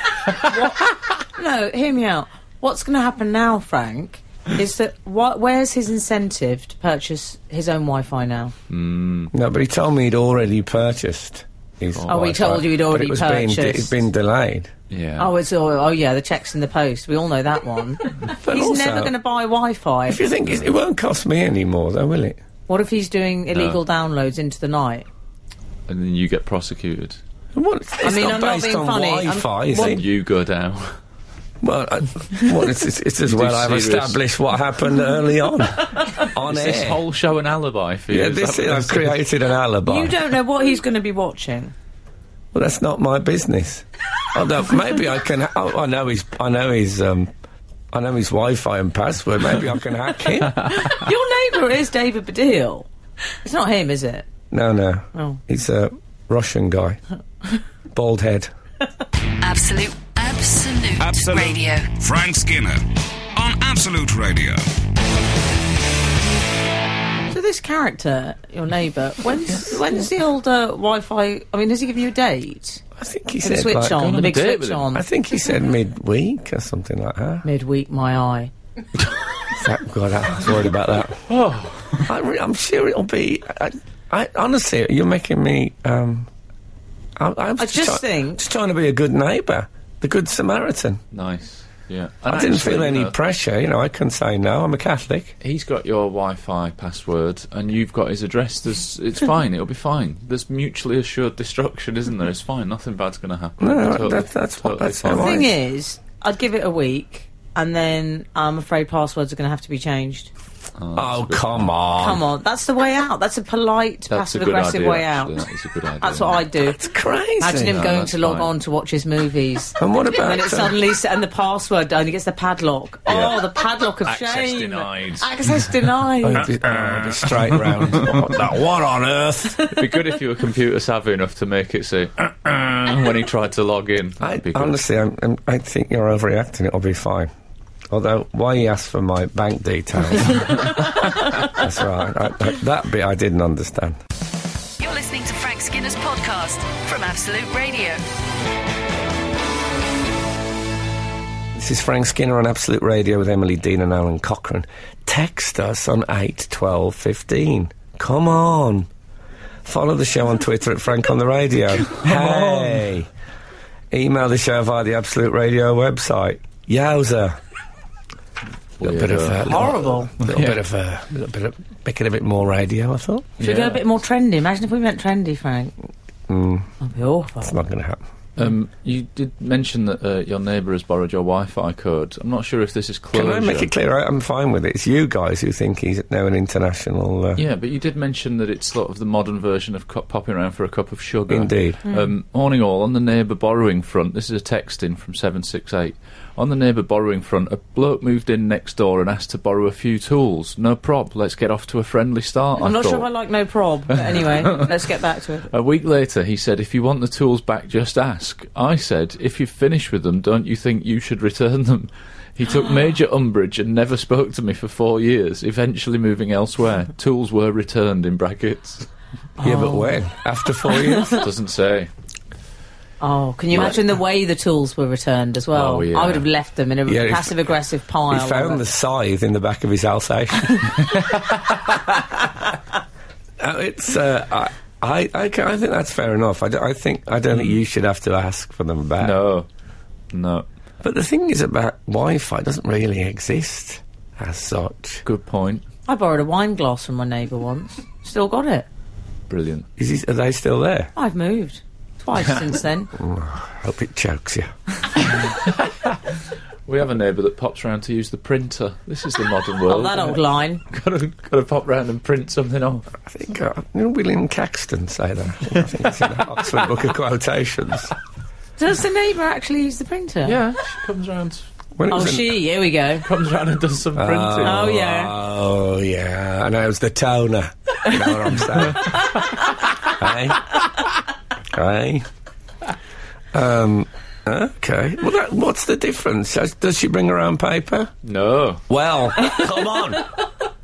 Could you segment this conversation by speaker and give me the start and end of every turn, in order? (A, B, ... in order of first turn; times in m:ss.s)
0:00.4-0:08.5 A
0:08.7-0:09.3 B
0:09.3-0:14.7 C
0:11.9-0:12.3 B
0:12.1-0:14.0 A
0:14.9-0:15.3 B
0:15.2-0:20.2 A
0:18.4-0:19.1 C
0:20.1-0:22.4 C
0:22.7-0:25.1 A
0:23.5-0:23.8 B
0:25.9-0:27.2 B
0:27.6-0:30.0 C
0:28.0-0:29.7 A
0:29.7-0:31.0 B
0:31.6-0:37.0 C
0:33.2-0:34.3 B
0:36.4-0:39.2 B
0:38.1-0:40.2 C
0:39.9-0:41.7 A
0:42.5-0:47.3 C
0:47.9-0:50.7 C
0:50.6-0:52.9 A
0:53.4-0:54.3 A
0:54.5-0:57.0 C
0:55.1-0:55.4 A
0:57.9-0:58.5 C
0:59.4-1:01.9 D
1:01.0-1:02.8 E
1:03.4-1:04.7 E
1:07.3-1:12.8 A
1:13.0-1:14.1 C
1:13.4-1:15.0 A
1:13.8-1:14.9 B
1:14.9-1:17.4 C
1:17.4-1:18.5 A
1:19.5-1:21.2 C
1:21.3-1:22.1 B
1:22.0-1:26.3 C
1:27.2-1:31.0 C
1:27.6-1:28.4 A
1:31.1-1:33.2 B
1:32.3-1:35.4 C
1:35.4-1:45.4 B
1:43.6-1:45.6 C
1:45.1-1:50.3 A
1:50.8-1:51.7 B
1:51.0-1:52.2 C
1:52.0-1:55.4 A
1:54.1-1:56.4 B
1:56.0-1:56.8 A
1:56.7-1:57.8 C
1:57.4-2:06.5 A
1:57.7-1:58.5 B
1:59.8-2:00.8 C
2:04.0-2:05.6 B
2:06.2-2:09.7 C
2:06.4-2:08.4 B
2:09.7-2:14.8 B
2:14.2-2:17.3 C
2:17.9-2:20.7 C
2:21.3-2:24.0 C
2:24.8-2:28.0 D
2:31.5-2:38.9 C
2:39.6-2:43.1 C
2:41.9-2:42.9 B
2:43.9-2:47.4 C
2:48.8-2:50.6 B
2:48.8-2:53.3 C
2:49.5-2:50.1 A
2:53.4-2:53.8 B
2:53.4-2:55.7 A
2:56.3-2:56.7 C
2:56.8-2:57.5 A
2:57.4-2:58.0 C
2:58.4-3:03.7 B
3:03.1-3:07.4 C
3:07.4-3:23.1 B
3:11.3-3:11.8 C
3:11.9-3:12.1 A
3:22.6-3:25.5 A
3:24.1-3:24.7 B
3:25.5-3:38.9 B
3:39.4-3:40.0 A
3:39.4-3:41.2 C
3:40.7-3:41.2 A
3:41.2-3:41.9 B
3:43.0-3:48.6 A
3:45.5-3:46.3 B
3:46.9-3:47.6 C
3:48.1-3:50.9 C
3:50.8-3:51.5 B
3:53.4-3:59.2 C
3:57.3-3:57.6 B
3:59.0-3:59.5 B
4:00.1-4:00.5 B
4:00.8-4:05.0 C
4:05.0-4:05.6 B
4:05.9-4:08.7 A
4:09.3-4:09.7 B
4:09.8-4:10.9 C
4:11.0-4:12.9 A
4:12.9-4:14.5 C
4:15.1-4:22.9 B
4:19.7-4:20.6 A
4:23.1-4:27.9 C
4:28.6-4:30.4 A
4:30.2-4:31.4 B
4:31.8-4:32.4 C
4:31.9-4:33.1 A
4:33.0-4:34.7 B
4:34.0-4:39.2 C
4:34.4-4:35.2 A
4:38.8-4:39.4 B
4:39.9-4:40.5 C
4:41.5-4:42.1 C
4:43.3-4:47.9 C
4:48.0-4:48.6 B
4:48.7-4:50.1 C